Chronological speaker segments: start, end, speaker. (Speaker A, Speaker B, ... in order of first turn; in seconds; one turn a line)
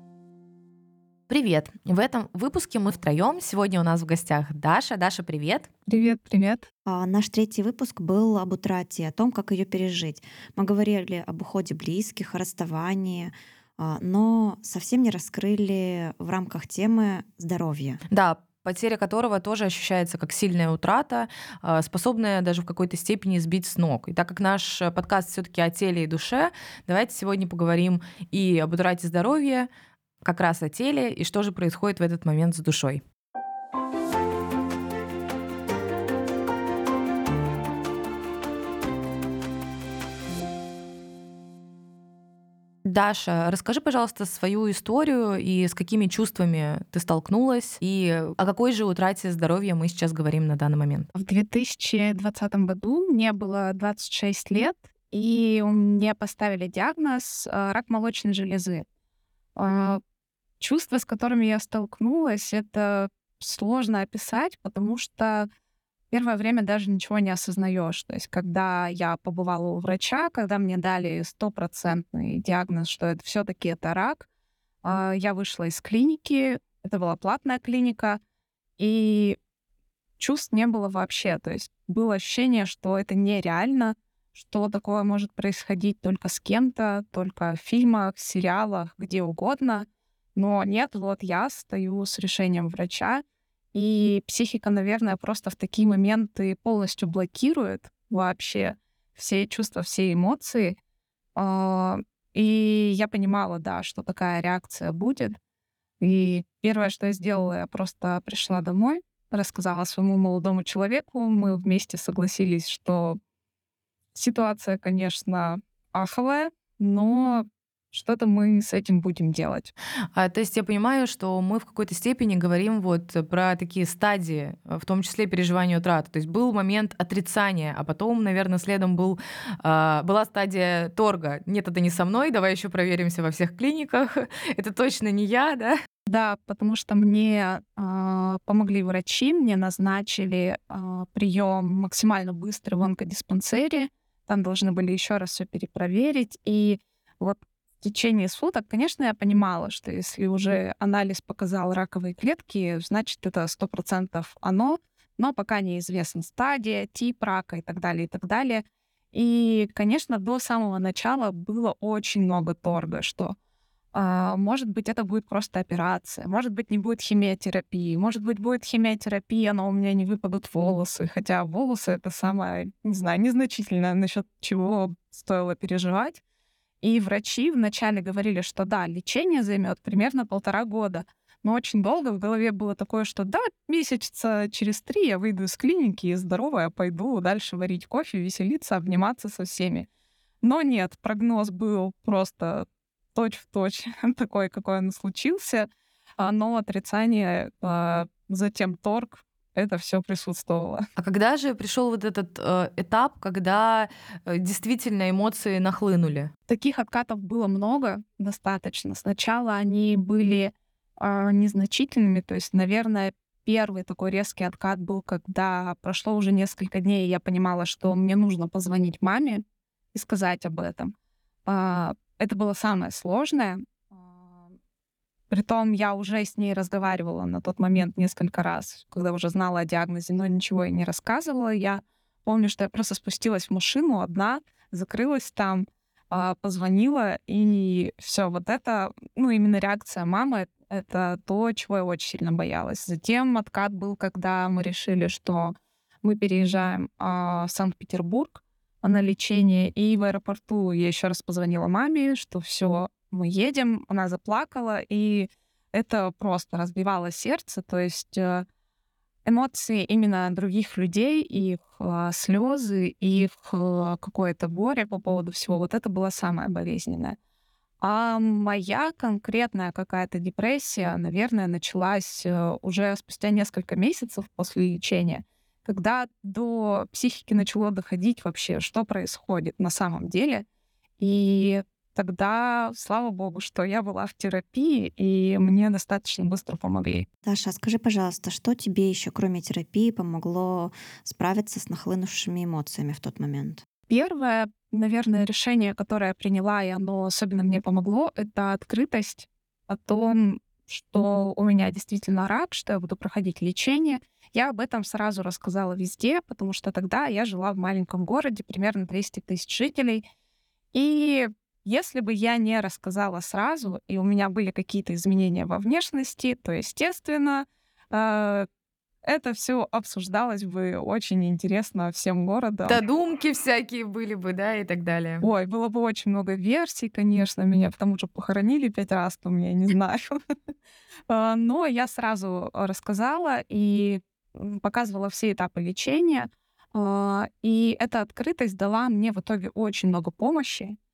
Speaker A: 1.3-5.7
Speaker B: 5.9-6.7
Speaker C: 6.8-18.0
Speaker A: 18.1-29.7
Speaker A: 30.2-33.0
Speaker A: 42.8-51.1
Speaker B: 51.1-58.8
Speaker B: 59.5-60.0
Speaker B: 60.6-65.5
Speaker B: 66.1-74.3
Speaker B: 74.8-78.2
Speaker B: 78.8-79.4
Speaker B: 80.2-93.2
Speaker B: 93.7-100.8
Speaker B: 101.4-105.4
Speaker B: 106.0-113.2
Speaker B: 114.2-119.7
Speaker A: 120.2-135.8
Speaker B: 136.1-163.4
Speaker B: 163.9-176.2
Speaker B: 176.8-189.9
Speaker B: 190.4-195.7
Speaker B: 196.2-200.8
Speaker A: 201.0-206.3
Speaker B: 206.5-220.9
Speaker B: 221.5-223.6
Speaker B: 225.3-258.4
Speaker B: 259.2-267.2
Speaker B: 267.8-280.4
Speaker B: 281.0-287.1
Speaker C: 287.2-293.6
Speaker B: 293.9-310.1
Speaker B: 310.7-318.5
Speaker B: 319.0-322.8
Speaker A: 322.7-325.2
Speaker B: 325.2-330.1
Speaker B: 331.1-340.8